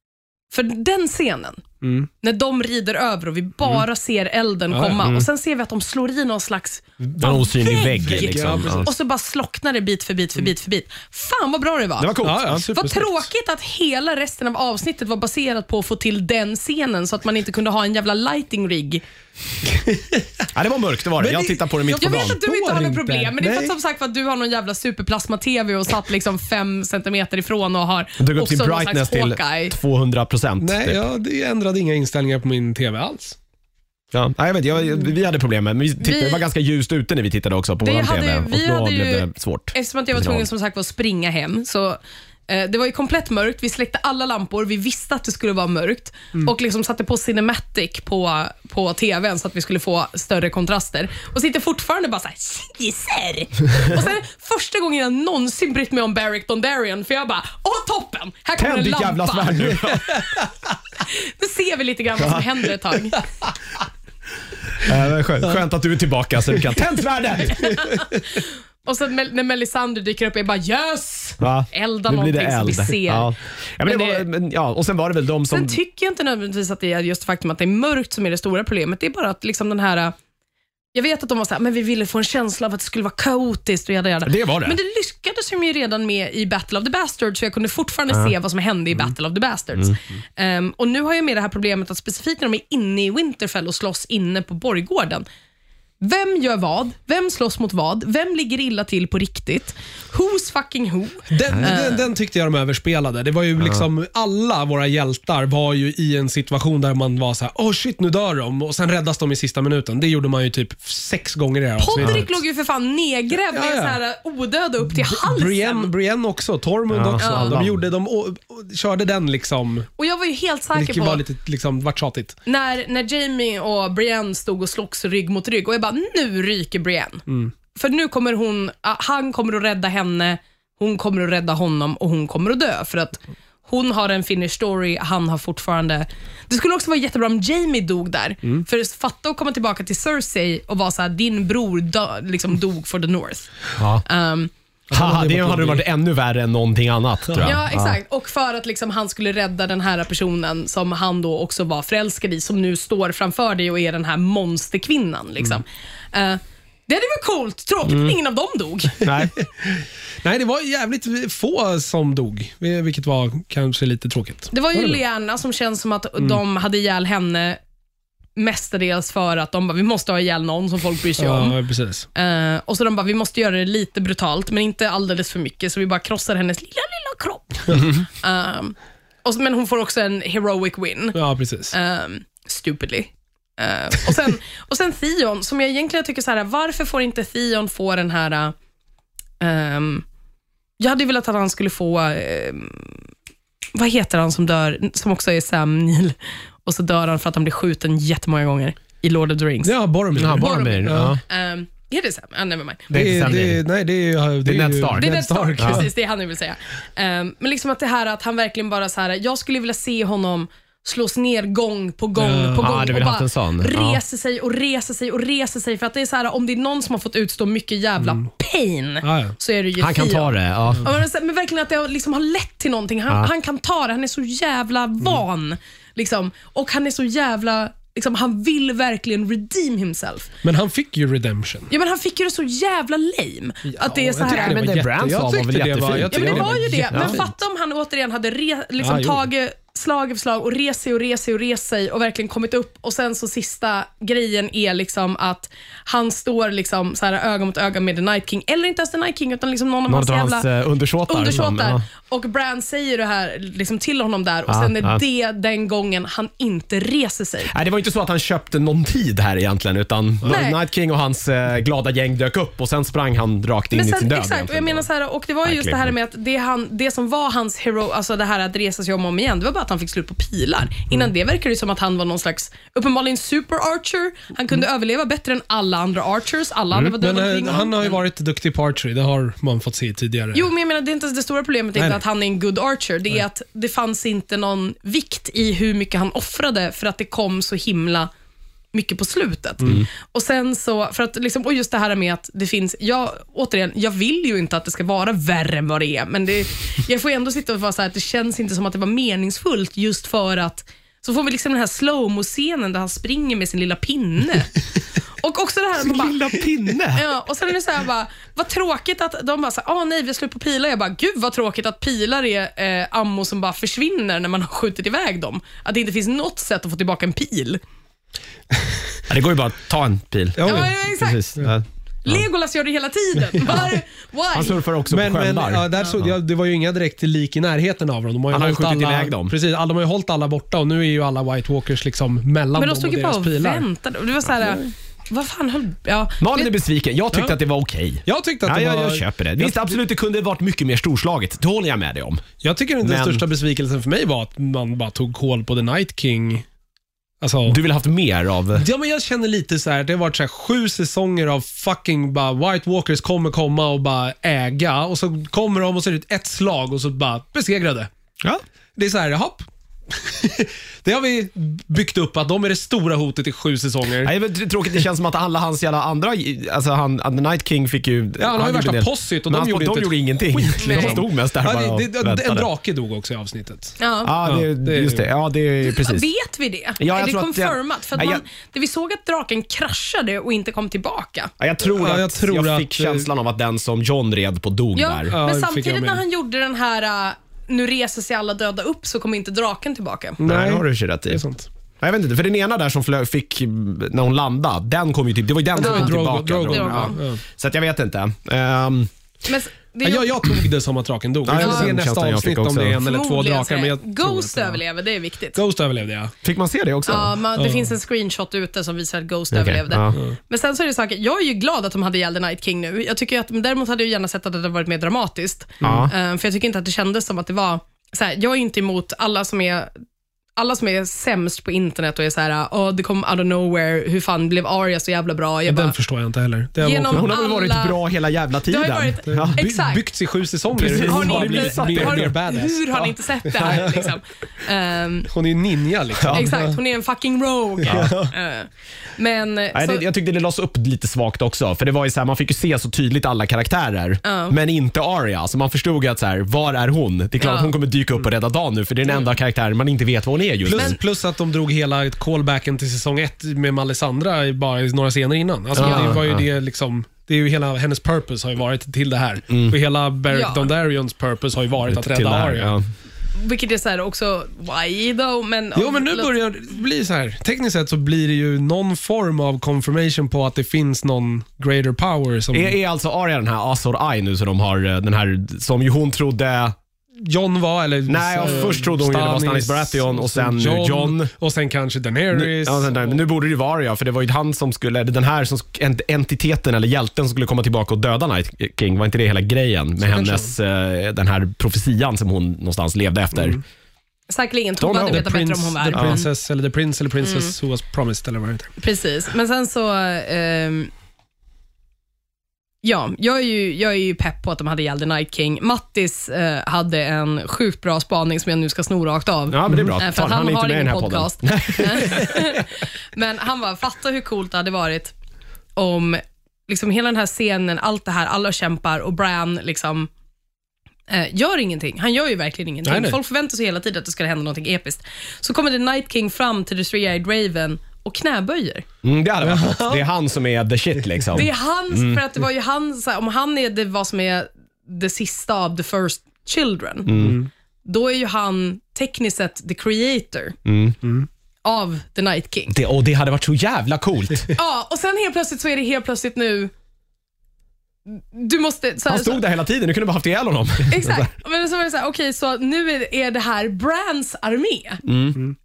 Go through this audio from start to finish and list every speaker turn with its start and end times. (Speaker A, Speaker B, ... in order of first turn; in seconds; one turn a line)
Speaker A: 0.5-1.6
Speaker B: 1.8-2.1
Speaker A: 2.2-12.1
Speaker B: 4.7-5.0
Speaker B: 7.0-8.9
Speaker C: 7.2-8.9
Speaker C: 12.0-12.6
Speaker B: 12.2-13.3
Speaker A: 12.7-19.0
Speaker B: 19.7-20.2
Speaker C: 20.5-22.4
Speaker B: 21.2-23.8
Speaker A: 21.9-29.8
Speaker C: 28.2-31.0
Speaker B: 30.6-33.4
Speaker C: 34.1-40.4
Speaker A: 36.0-36.4
Speaker A: 37.8-59.9
Speaker C: 58.6-60.3
Speaker B: 60.1-60.4
Speaker A: 61.0-63.2
Speaker C: 64.8-67.9
Speaker A: 67.6-73.3
Speaker C: 71.4-75.8
Speaker A: 73.8-74.3
Speaker A: 75.5-80.1
Speaker A: 80.9-95.2
Speaker C: 84.2-84.8
Speaker A: 96.0-102.0
Speaker B: 101.3-112.3
Speaker C: 103.6-103.9
Speaker A: 111.8-115.9
Speaker C: 112.0-112.2
Speaker B: 113.5-114.0
Speaker B: 114.9-119.9
Speaker C: 116.9-117.8
Speaker A: 117.2-117.6
Speaker A: 120.0-121.2
Speaker B: 120.7-122.3
Speaker A: 122.5-144.5
Speaker B: 127.3-127.5
Speaker C: 143.8-144.0
Speaker B: 144.9-145.8
Speaker C: 144.9-147.9
Speaker A: 147.4-159.1
Speaker C: 157.9-158.1
Speaker C: 159.0-159.3
Speaker B: 159.6-165.0
Speaker A: 164.5-167.6
Speaker A: 168.3-171.6
Speaker B: 171.2-172.1
Speaker A: 172.1-181.2
Speaker C: 177.8-178.0
Speaker B: 181.1-181.7
Speaker A: 181.7-188.5
Speaker A: 189.4-190.0
Speaker A: 190.8-193.0
Speaker A: 193.7-199.7
Speaker B: 199.6-201.2
Speaker C: 200.1-201.2
Speaker A: 200.3-203.3
Speaker C: 202.9-203.6
Speaker B: 202.9-205.9
Speaker C: 204.4-205.9
Speaker A: 204.9-230.3
Speaker B: 212.2-212.7
Speaker C: 212.6-214.0
Speaker B: 219.0-219.4
Speaker C: 219.8-220.9
Speaker B: 230.4-231.7
Speaker A: 231.7-234.7
Speaker B: 233.6-237.2
Speaker C: 234.2-237.2
Speaker A: 236.0-250.5
Speaker B: 238.8-239.2
Speaker C: 249.9-251.8
Speaker A: 251.1-257.5
Speaker C: 254.5-255.0
Speaker C: 257.5-264.9
Speaker A: 260.2-260.6
Speaker A: 263.7-278.0
Speaker C: 265.4-265.9
Speaker B: 277.0-280.5
Speaker A: 280.3-288.1
Speaker A: 288.7-304.5
Speaker A: 305.2-306.4
Speaker C: 305.8-307.1
Speaker A: 306.9-317.6
Speaker C: 319.1-322.2
Speaker B: 320.4-320.7
Speaker A: 320.4-321.3
Speaker A: 322.0-324.6
Speaker C: 324.3-326.1
Speaker B: 324.9-333.6
Speaker C: 328.3-329.3
Speaker A: 332.5-336.5
Speaker C: 336.2-342.2
Speaker B: 338.1-339.7
Speaker B: 342.4-346.4
Speaker C: 342.8-343.2
Speaker B: 347.2-347.6
Speaker C: 347.5-348.6
Speaker B: 348.6-357.9
Speaker B: 358.8-364.1
Speaker C: 364.0-372.5
Speaker B: 368.2-375.1
Speaker A: 370.6-371.0
Speaker A: 373.8-374.1
Speaker C: 374.0-376.1
Speaker A: 375.6-381.3
Speaker C: 376.8-378.2
Speaker C: 381.4-385.1
Speaker B: 381.7-383.1
Speaker A: 384.7-390.2
Speaker B: 385.1-386.0
Speaker B: 390.2-391.5
Speaker C: 390.2-391.2
Speaker C: 391.8-398.9
Speaker B: 395.5-397.2
Speaker A: 395.6-395.9
Speaker A: 396.5-397.0
Speaker A: 399.2-400.3
Speaker B: 399.8-404.6
Speaker C: 401.2-402.8
Speaker A: 401.4-401.7
Speaker A: 402.8-405.4
Speaker B: 405.3-406.1
Speaker C: 406.2-407.1
Speaker A: 406.9-419.7
Speaker B: 407.4-407.7
Speaker C: 409.3-410.0
Speaker B: 415.6-415.9
Speaker C: 415.6-415.9
Speaker A: 420.4-425.7
Speaker B: 425.5-427.1
Speaker A: 426.6-427.8
Speaker C: 426.9-429.4
Speaker A: 428.5-429.8
Speaker B: 429.1-433.9
Speaker C: 430.5-432.1
Speaker A: 430.7-435.1
Speaker B: 435.1-436.6
Speaker C: 436.0-436.3
Speaker A: 436.1-439.8
Speaker B: 437.7-438.1
Speaker C: 437.7-438.0
Speaker C: 439.5-450.8
Speaker A: 444.0-444.3
Speaker A: 447.2-447.5
Speaker B: 450.5-462.6
Speaker A: 450.5-450.8
Speaker C: 455.6-456.2
Speaker A: 455.6-456.0
Speaker C: 459.3-459.6
Speaker A: 460.1-460.5
Speaker C: 461.7-462.7
Speaker A: 463.1-466.1
Speaker B: 465.5-472.6
Speaker C: 472.3-476.6
Speaker B: 477.0-483.0
Speaker C: 477.9-481.1
Speaker C: 482.1-493.4
Speaker B: 489.8-490.3
Speaker B: 493.1-493.4
Speaker A: 494.1-496.1
Speaker C: 494.6-495.0
Speaker B: 494.9-498.6
Speaker C: 495.7-496.0
Speaker A: 497.0-497.3
Speaker A: 498.6-500.7
Speaker A: 502.6-514.9
Speaker C: 509.3-512.4
Speaker A: 515.5-519.9
Speaker A: 520.9-528.6
Speaker B: 522.6-523.0
Speaker C: 528.8-532.0
Speaker B: 529.2-529.9
Speaker A: 531.1-536.9
Speaker C: 536.9-537.2
Speaker B: 537.0-537.3
Speaker A: 537.6-540.4
Speaker C: 540.4-540.8
Speaker B: 540.8-541.1
Speaker A: 541.4-542.5
Speaker C: 542.5-544.3
Speaker A: 544.3-546.5
Speaker A: 547.9-549.2
Speaker C: 548.9-551.1
Speaker A: 550.6-554.8
Speaker C: 554.9-555.2